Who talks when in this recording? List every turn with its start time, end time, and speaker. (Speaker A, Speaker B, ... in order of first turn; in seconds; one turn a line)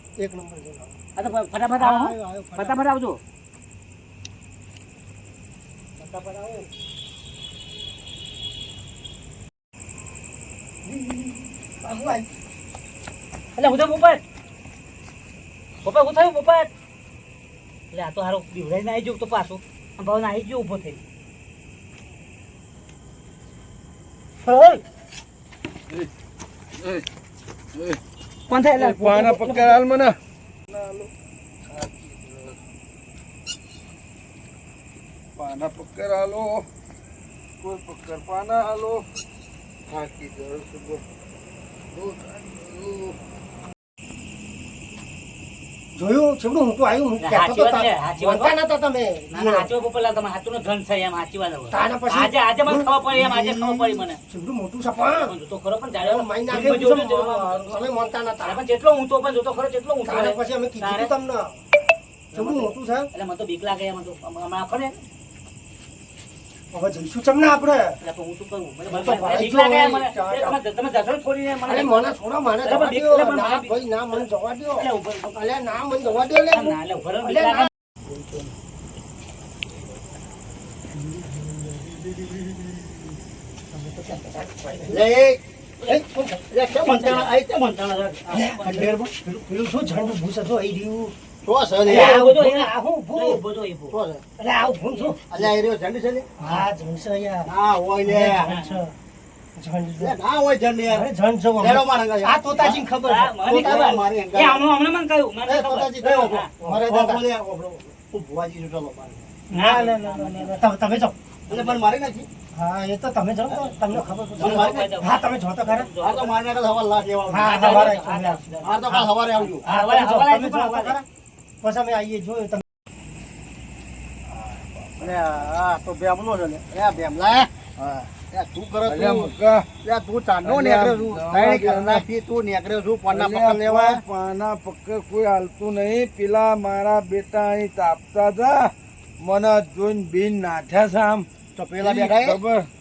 Speaker A: 0.2-0.9
Speaker B: 1.1-3.2
Speaker A: 1.8-2.8
Speaker A: 6.0-6.7
Speaker A: 10.8-12.3
Speaker B: 13.6-14.2
Speaker B: 15.8-16.7
Speaker B: 17.9-21.0
Speaker A: 24.4-24.8
Speaker C: 26.8-27.0
Speaker C: 27.7-28.0
Speaker B: 28.5-29.8
Speaker C: 28.7-30.2
Speaker C: 30.7-31.1
Speaker C: 31.7-32.6
Speaker C: 35.4-36.6
Speaker C: 37.6-39.0
Speaker C: 39.9-41.0
Speaker C: 41.9-43.1
Speaker A: 45.9-49.7
Speaker B: 47.2-48.5
Speaker B: 49.3-54.2
Speaker A: 51.7-55.3
Speaker B: 55.2-57.9
Speaker A: 56.0-58.6
Speaker B: 58.4-61.1
Speaker A: 60.0-61.6
Speaker B: 62.3-65.0
Speaker A: 62.3-63.1
Speaker A: 66.7-68.0
Speaker B: 68.0-74.2
Speaker A: 68.9-70.6
Speaker A: 71.6-77.7
Speaker B: 74.8-75.1
Speaker B: 76.5-77.7
Speaker A: 81.1-81.8
Speaker A: 83.7-85.0
Speaker D: 84.9-85.4
Speaker A: 85.8-87.3
Speaker D: 86.5-89.1
Speaker A: 88.3-91.1
Speaker B: 88.3-88.8
Speaker D: 91.4-92.2
Speaker A: 91.8-93.4
Speaker B: 91.8-94.0
Speaker D: 93.9-94.2
Speaker A: 94.4-95.3
Speaker D: 95.3-96.3
Speaker A: 96.4-97.5
Speaker D: 97.5-98.5
Speaker A: 98.0-98.9
Speaker B: 98.5-98.8
Speaker A: 99.5-100.2
Speaker D: 100.0-102.8
Speaker A: 100.9-104.0
Speaker B: 103.0-106.5
Speaker D: 103.5-104.6
Speaker A: 105.4-107.2
Speaker D: 106.6-109.2
Speaker A: 109.5-111.2
Speaker B: 109.5-110.6
Speaker D: 111.5-112.3
Speaker B: 111.5-111.8
Speaker A: 112.5-115.9
Speaker B: 114.3-116.3
Speaker D: 114.4-114.9
Speaker D: 116.0-118.1
Speaker A: 117.3-119.1
Speaker B: 117.4-121.0
Speaker D: 118.6-119.6
Speaker A: 119.6-121.0
Speaker A: 121.6-122.6
Speaker C: 124.3-125.1
Speaker D: 125.0-134.0
Speaker C: 128.8-129.7
Speaker C: 130.4-132.1
Speaker C: 133.1-141.3
Speaker D: 141.6-142.4
Speaker C: 141.8-142.7